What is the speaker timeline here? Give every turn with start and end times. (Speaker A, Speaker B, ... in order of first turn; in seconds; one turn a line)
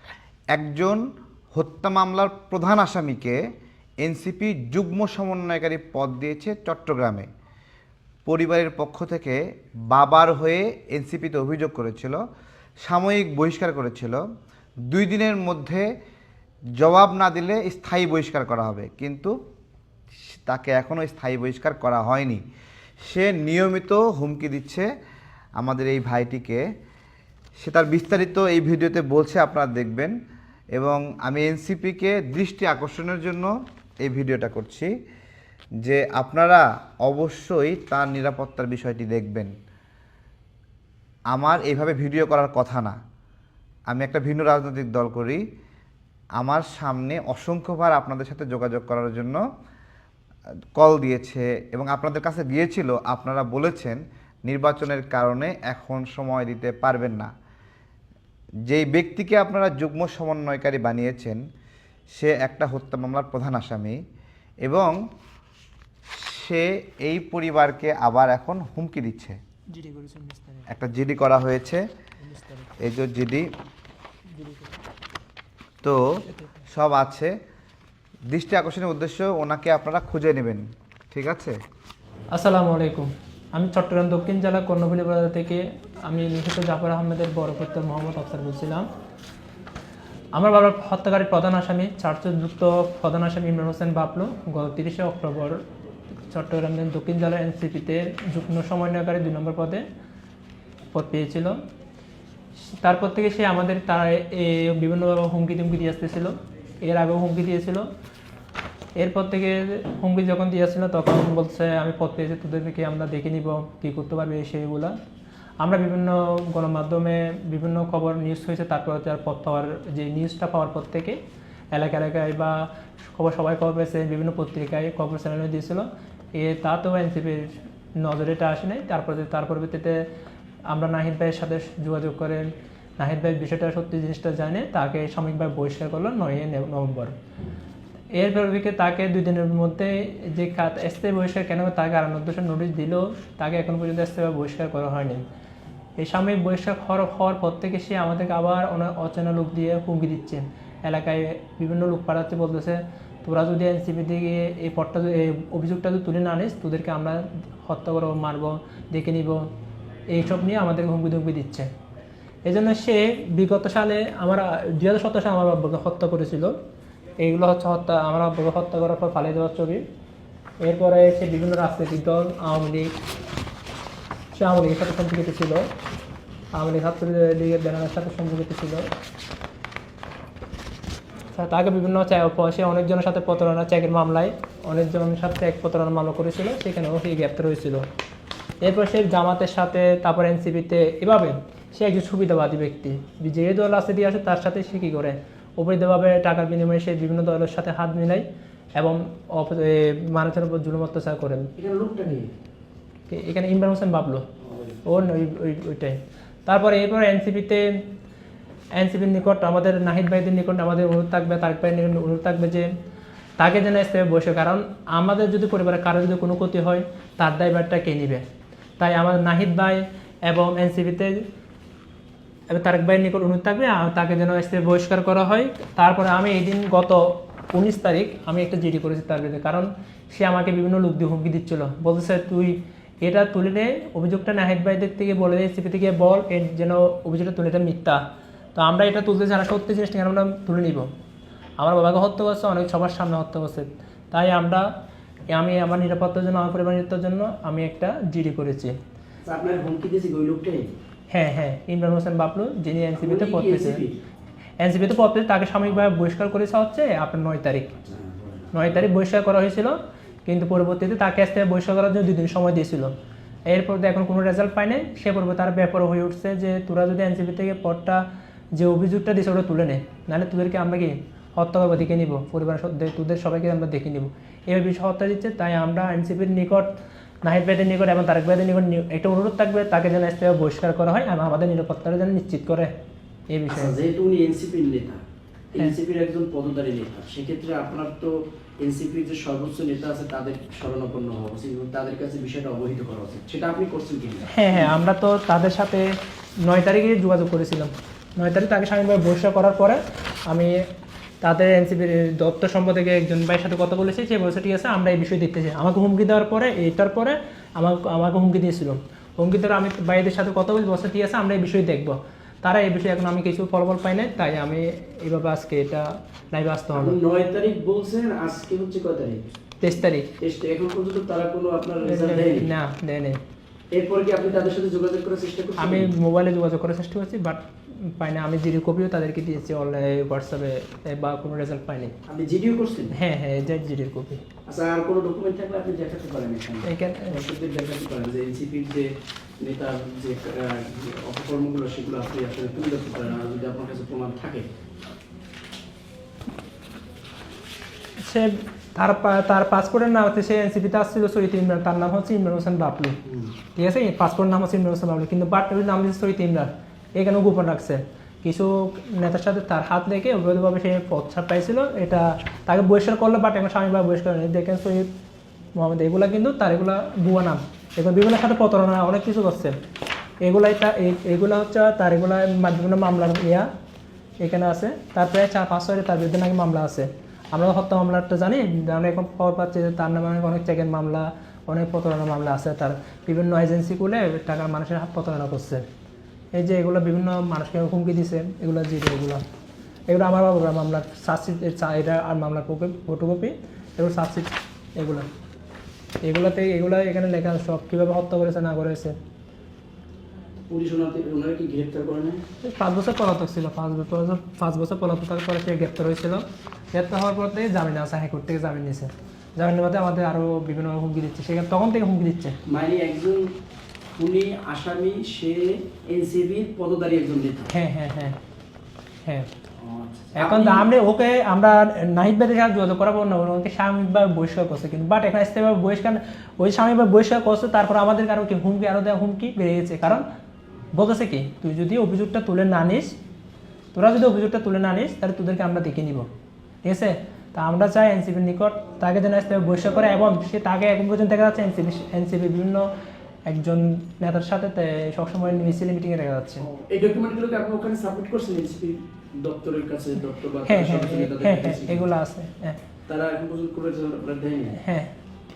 Speaker A: 0.5-1.0
Speaker A: 1.5-3.4
Speaker A: 4.0-7.3
Speaker A: 8.2-9.4
Speaker A: 9.9-12.2
Speaker A: 12.8-14.2
Speaker A: 14.9-15.8
Speaker A: 16.8-19.3
Speaker A: 20.5-22.4
Speaker A: 23.1-24.9
Speaker A: 25.6-26.6
Speaker A: 27.6-30.1
Speaker A: 30.7-33.5
Speaker A: 34.0-34.9
Speaker A: 35.8-39.5
Speaker A: 41.3-43.0
Speaker A: 43.9-45.4
Speaker A: 46.4-49.4
Speaker A: 50.8-57.3
Speaker A: 58.7-61.4
Speaker A: 62.1-64.0
Speaker A: 64.6-65.0
Speaker A: 66.1-69.4
Speaker B: 69.7-70.7
Speaker A: 70.7-71.8
Speaker B: 72.3-72.7
Speaker A: 72.8-73.5
Speaker B: 74.4-74.7
Speaker A: 75.8-76.1
Speaker A: 76.7-77.3
Speaker A: 78.3-81.5
Speaker B: 82.3-88.9
Speaker B: 90.3-95.7
Speaker B: 96.3-99.8
Speaker B: 100.9-101.6
Speaker B: 102.6-107.9
Speaker B: 109.0-114.9
Speaker B: 115.6-121.2
Speaker B: 121.7-130.1
Speaker B: 130.7-137.1
Speaker B: 138.1-145.2
Speaker B: 146.0-159.5
Speaker B: 160.1-161.7
Speaker B: 162.4-166.6
Speaker B: 167.2-169.8
Speaker B: 170.6-172.9
Speaker B: 174.3-175.7
Speaker B: 176.5-178.8
Speaker B: 181.3-187.8
Speaker B: 188.6-198.2
Speaker B: 198.8-201.5
Speaker C: 201.6-202.3
Speaker B: 203.1-204.2
Speaker C: 204.4-204.8
Speaker B: 204.8-207.7
Speaker B: 208.8-212.7
Speaker B: 213.4-218.2
Speaker B: 218.8-221.2
Speaker B: 222.5-238.0
Speaker B: 238.5-240.9
Speaker B: 241.6-244.6
Speaker B: 245.3-248.8
Speaker C: 249.2-250.8
Speaker B: 251.1-253.8
Speaker C: 253.0-254.0
Speaker B: 254.6-257.8
Speaker C: 257.8-258.8
Speaker B: 258.5-262.9
Speaker B: 263.5-268.0
Speaker B: 268.6-276.7
Speaker B: 277.2-282.7
Speaker B: 283.3-283.8
Speaker C: 283.5-294.7
Speaker B: 294.3-295.9
Speaker B: 296.4-300.6
Speaker B: 301.2-317.0
Speaker C: 316.8-319.3
Speaker B: 319.6-320.1
Speaker C: 320.2-322.5
Speaker B: 321.8-323.2
Speaker C: 323.7-325.9
Speaker B: 325.6-331.9
Speaker C: 332.1-332.9
Speaker B: 332.9-334.2
Speaker C: 334.5-344.5
Speaker B: 336.6-337.2
Speaker B: 348.0-353.0
Speaker C: 353.1-353.4
Speaker B: 353.6-364.9
Speaker B: 365.6-369.6
Speaker B: 370.2-373.5
Speaker B: 374.2-385.6
Speaker B: 386.3-389.2
Speaker B: 389.9-395.1
Speaker B: 396.0-398.9
Speaker C: 400.5-402.2
Speaker B: 402.4-412.4
Speaker C: 412.5-413.4
Speaker C: 414.0-417.5
Speaker B: 417.5-418.2
Speaker B: 419.1-419.3
Speaker C: 419.6-420.7
Speaker B: 420.1-430.1
Speaker B: 430.7-432.9
Speaker B: 433.7-436.1
Speaker B: 436.6-442.7
Speaker B: 443.3-446.5
Speaker C: 446.5-451.9
Speaker B: 450.4-452.6
Speaker C: 452.9-454.6
Speaker B: 454.6-454.9